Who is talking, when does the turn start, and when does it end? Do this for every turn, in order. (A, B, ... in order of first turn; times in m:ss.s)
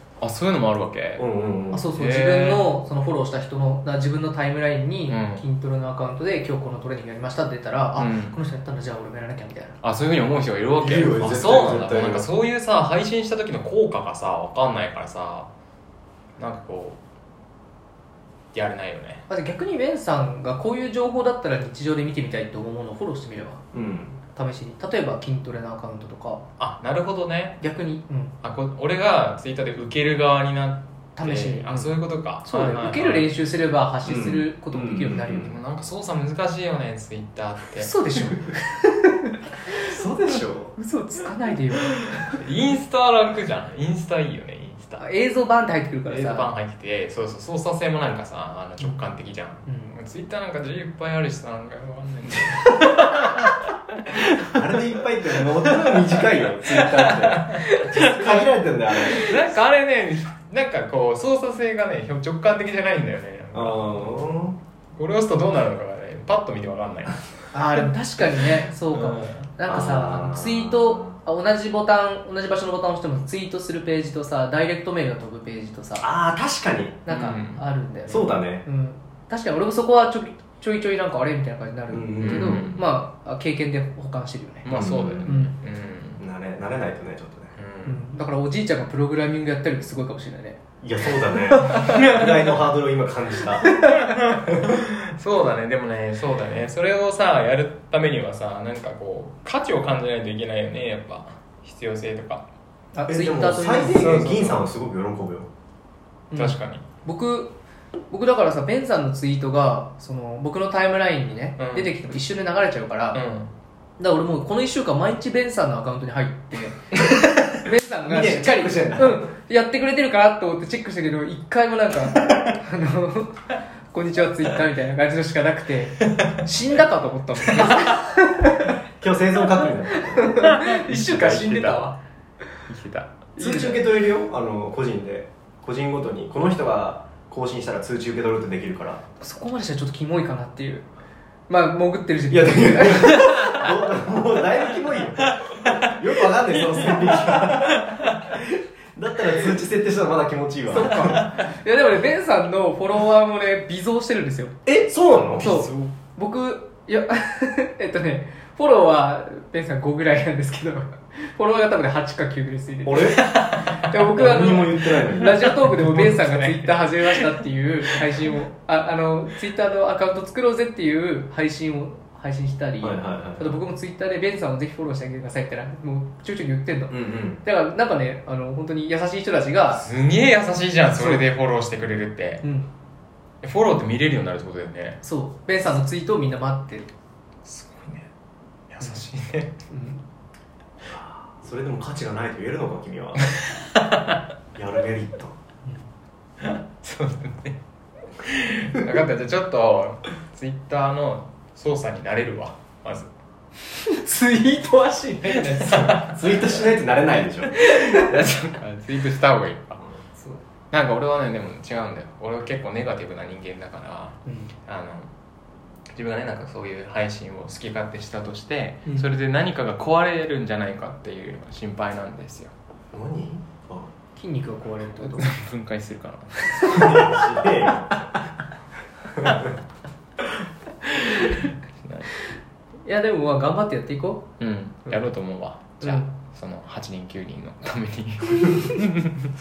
0:00.2-0:01.2 A
0:01.2-0:01.9 B
0:01.7-0:09.8 C
0:01.9-0:02.7 A
0:05.1-0:05.4 A
0:08.0-0:08.4 A
0:09.8-0:15.5 A
0:10.8-0:12.2 B
0:16.4-0:17.0 A
0:18.5-0:19.2 A
0:19.3-0:23.6 C
0:23.7-0:24.2 B
0:24.4-0:26.4 C
0:26.6-0:27.6 A
0:27.6-0:28.3 C
0:28.4-0:33.3 A
0:31.2-0:35.5 C
0:34.0-0:35.6 B
0:35.3-0:37.9 A
0:37.8-0:42.0 C
0:39.8-0:40.8 B
0:42.2-0:45.0 A
0:45.0-0:46.5 C
0:46.1-0:54.6 A
0:49.6-0:49.9 C
0:54.4-0:59.4 B
0:55.7-1:04.3 A
1:03.5-1:04.6 B
1:05.0-1:07.9 A
1:07.5-1:16.0 C
1:08.9-1:09.5 A
1:09.7-1:11.2 B
1:16.0-1:17.0 B
1:17.1-1:24.7 C
1:17.1-1:17.6 A
1:18.1-1:18.6 B
1:21.9-1:22.8 B
1:22.2-1:22.8 A
1:24.6-1:26.2 A
1:24.7-1:25.3 B
1:25.3-1:25.5 C
1:26.2-1:27.5 B
1:27.6-1:28.0 A
1:27.8-1:30.6 C
1:30.8-1:33.8 B
1:31.5-1:32.0 C
1:31.6-1:32.3 A
1:33.6-1:34.0 C
1:33.9-1:42.5 A
1:42.9-1:44.7 C
1:43.1-1:45.5 B
1:46.3-1:47.6 C
1:46.4-1:46.8 A
1:48.1-1:53.2 C
1:51.6-1:51.9 A
1:53.1-1:53.5 A
1:54.0-1:57.0 C
1:57.5-2:08.8 C
1:58.1-1:59.3 B
2:07.6-2:07.8 A
2:09.0-2:10.4 B
2:09.6-2:12.0 C
2:10.4-2:11.9 A
2:12.7-2:13.2 A
2:13.4-2:13.9 C
2:13.4-2:19.0 B
2:19.2-2:20.9 C
2:21.5-2:23.6 C
2:22.3-2:31.3 B
2:25.4-2:26.0 A
2:26.5-2:28.1 A
2:30.7-2:34.6 C
2:31.0-2:31.4 A
2:34.7-2:35.7 B
2:35.3-2:35.9 A
2:35.4-2:59.8 C
2:42.8-2:43.3 B
2:43.2-2:44.0 A
2:44.1-2:45.8 B
2:45.5-2:48.0 A
2:52.8-2:53.6 B
2:56.9-2:57.4 B
2:59.7-3:02.4 A
3:00.9-3:01.2 C
3:02.4-3:02.7 C
3:03.4-3:05.0 A
3:05.0-3:06.9 C
3:07.4-3:08.1 A
3:08.7-3:09.6 A
3:09.7-3:10.0 C
3:10.8-3:13.2 B
3:13.4-3:14.1 A
3:14.6-3:15.3 B
3:16.4-3:17.6 A
3:18.2-3:23.1 A
3:23.7-3:26.3 C
3:25.3-3:26.6 A
3:26.1-3:27.5 B
3:27.6-3:28.2 C
3:27.6-3:29.8 A
3:30.2-3:30.4 C
3:30.7-3:35.1 A
3:34.3-3:34.5 C
3:36.0-3:42.5 A
3:42.9-3:43.9 B
3:44.2-3:45.4 C
3:45.0-3:47.1 A
3:46.6-3:48.0 B
3:49.2-3:49.5 B
3:49.3-3:49.5 A
3:50.9-3:52.1 A
3:52.9-3:54.3 C
3:54.4-3:59.3 A
3:55.8-3:56.1 C